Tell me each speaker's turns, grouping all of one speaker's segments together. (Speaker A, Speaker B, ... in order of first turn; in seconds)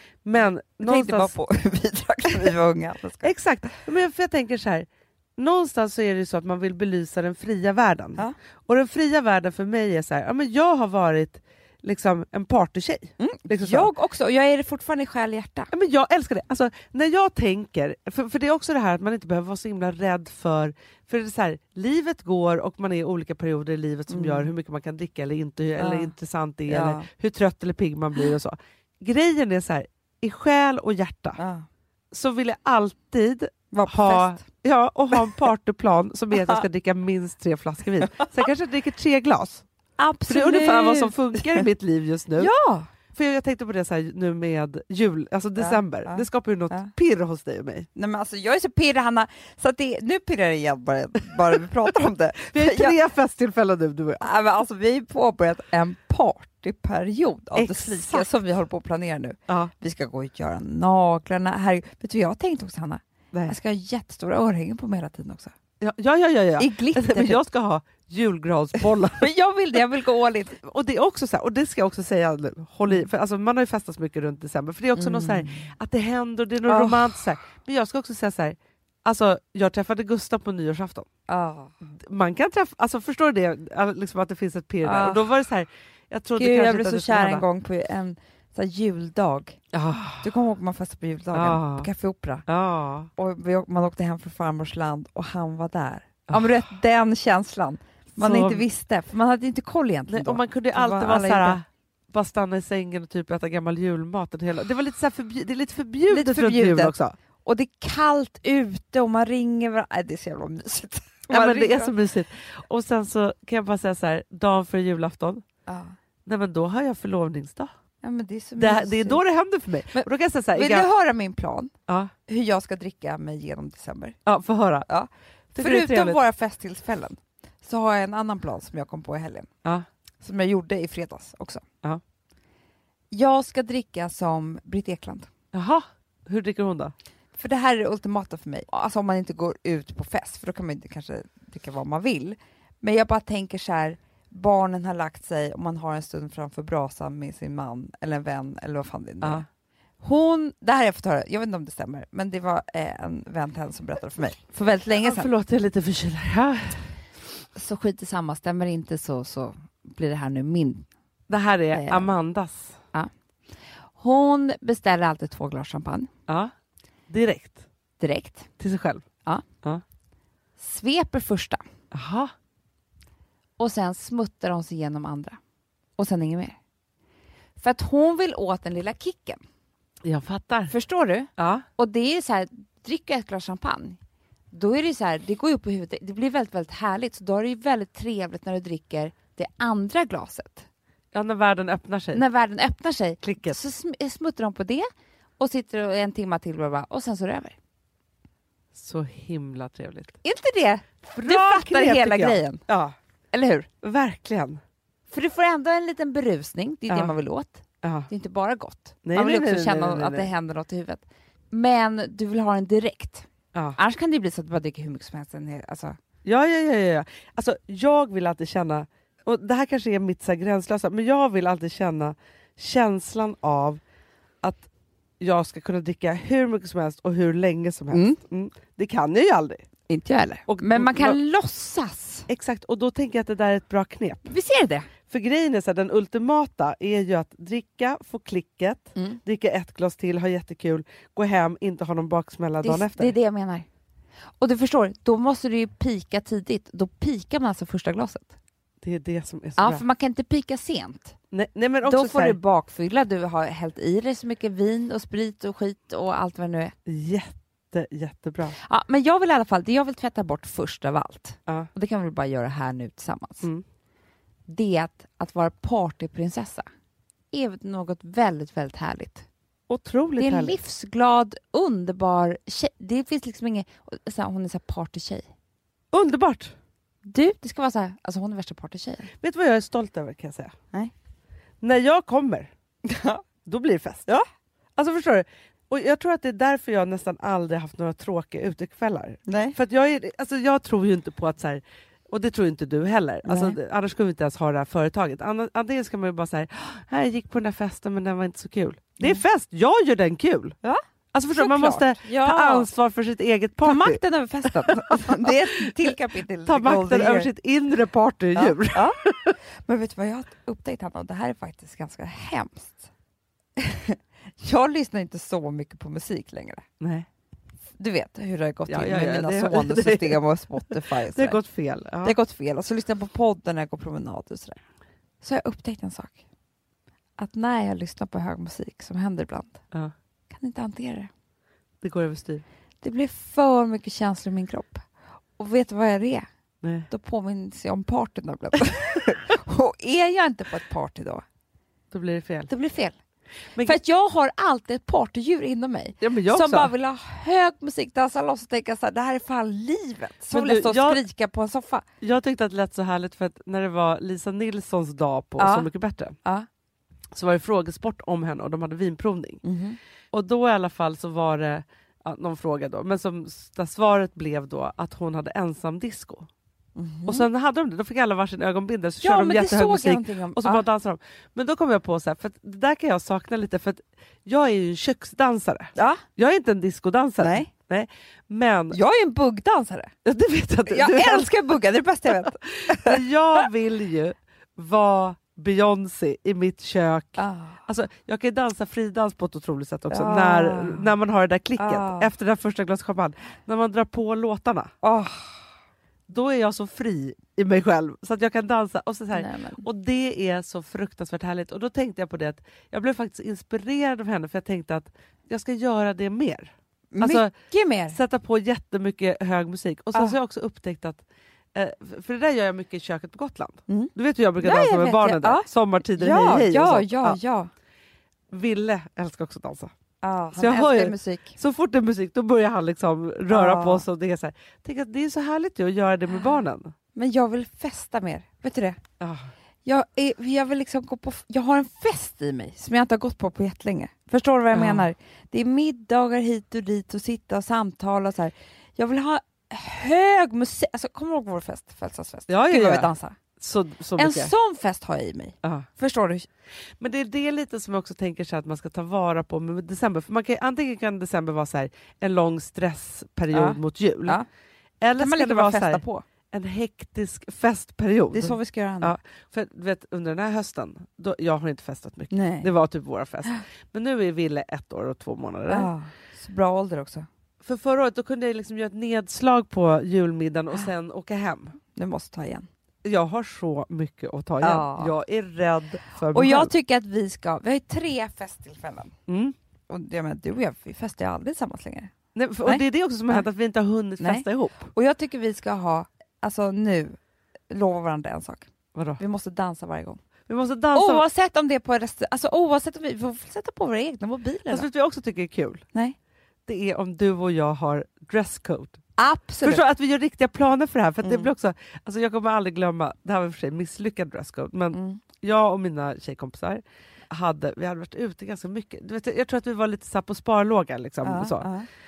Speaker A: 0.2-1.3, 3.2-13.9, 15.7-31.4, 32.1-39.6, 40.3-42.5, 43.1-47.9, 52.4-54.2, 57.5-58.3, 65.8-69.3, 70.6-81.1, 82.0-87.4, 89.7-90.3, 91.3-91.9, 92.5-93.1, 98.2-98.6, 100.1-107.2, 111.3-115.5, 116.3-117.7, 118.6-120.9, 121.9-122.1, 124.2-124.9, 125.5-126.2, 135.5-136.9, 155.0-156.9, 161.3-162.8, 166.3-166.5, 167.1-167.7, 168.6-169.1, 171.9-172.3, 180.0-180.8, 181.4-181.7, 191.1-192.2, 193.2-193.6, 198.7-200.2, 201.1-202.9, 203.8-204.6, 207.8-208.1, 209.1-210.3, 216.2-223.8, 224.4-224.7, 225.2-229.7, 230.5-231.2, 232.3-234.3, 235.1-243.1, 248.8-249.8, 251.3-252.4, 256.9-258.6, 269.7-270.6, 275.9-276.6, 279.2-280.5, 281.6-282.5, 283.4-284.1, 284.8-300.6, 301.1-305.7, 306.4-309.4, 316.8-317.1, 318.7-322.2, 331.8-332.4, 336.6-336.9, 341.9-342.5, 346.0-346.7, 350.3-351.0, 352.0-356.2, 357.1-359.4, 360.1-366.3, 367.1-378.8, 380.1-381.3, 382.3-394.7, 396.1-407.3, 407.9-411.0, 411.5-417.2, 418.3-419.7, 420.4-426.7, 429.0-429.3, 434.5-434.9, 442.3-444.3, 446.8-454.2, 454.8-465.7, 467.4-471.6, 472.9-476.5, 479.1-479.4, 482.1-484.7, 488.8-489.0, 490.3-491.0, 494.5-495.6, 496.5-498.8, 499.4-511.5
Speaker B: 0.8-3.3, 13.2-15.7, 24.1-24.5, 25.8-26.1, 26.7-27.1, 31.4-31.7, 33.7-34.4, 36.3-36.6, 40.0-41.6, 42.4-42.9, 45.6-46.9, 48.0-53.0, 54.2-65.5, 66.6-67.4, 69.1-70.6, 75.0-75.7, 76.7-77.2, 81.3-81.8, 84.8-85.3, 86.4-89.6, 90.2-92.5, 93.2-101.6, 106.1-111.9, 115.7-116.0, 118.0-119.2, 119.9-121.7, 122.3-124.2, 124.9-129.5, 130.2-131.6, 133.1-135.3, 137.3-149.4, 150.0-155.3, 157.6-160.9, 161.7-162.1, 164.0-166.1, 168.0-168.5, 170.6-171.6, 173.6-175.4, 176.0-176.6, 177.6-179.4, 180.7-184.0, 184.5-190.7, 192.1-194.9, 195.4-197.6, 200.2-202.6, 203.3-203.7, 205.1-216.0, 227.9-228.2, 229.9-232.3, 234.3-234.9, 242.6-243.7, 244.4-248.3, 249.6-251.2, 251.8-256.8, 258.6-263.5, 264.5-266.7, 267.3-269.3, 270.2-275.3, 277.1-279.1, 282.9-283.2, 289.3-289.6, 293.2-293.6, 301.3-302.7, 303.6-307.3, 308.4-309.0, 309.6-312.9, 313.6-316.6, 317.8-321.4, 322.0-324.6, 325.2-326.2, 327.2-329.6, 330.3-331.1, 332.8-334.9, 335.4-336.3, 336.9-341.2, 342.5-343.0, 343.6-351.9, 355.4-355.7, 359.4-359.8, 366.8-367.3, 369.0-370.6, 375.8-376.0, 377.2-377.5, 378.7-379.9, 380.7-383.0, 387.2-387.6, 389.9-390.9, 391.6-392.1, 394.8-395.5, 399.1-399.6, 406.9-408.0, 413.7-417.5, 420.0-421.4, 423.3-423.8, 426.9-428.8, 429.6-443.2, 444.0-446.3, 453.3-454.3, 455.0-456.1, 458.1-459.0, 462.1-462.5, 465.5-467.1, 471.8-472.5, 474.4-474.9, 476.1-478.9, 479.7-481.9, 482.4-483.2, 484.0-487.0, 487.5-488.5, 489.0-490.0, 490.7-494.7, 499.0-499.6, 501.0-501.3, 504.7-505.0, 511.0-511.7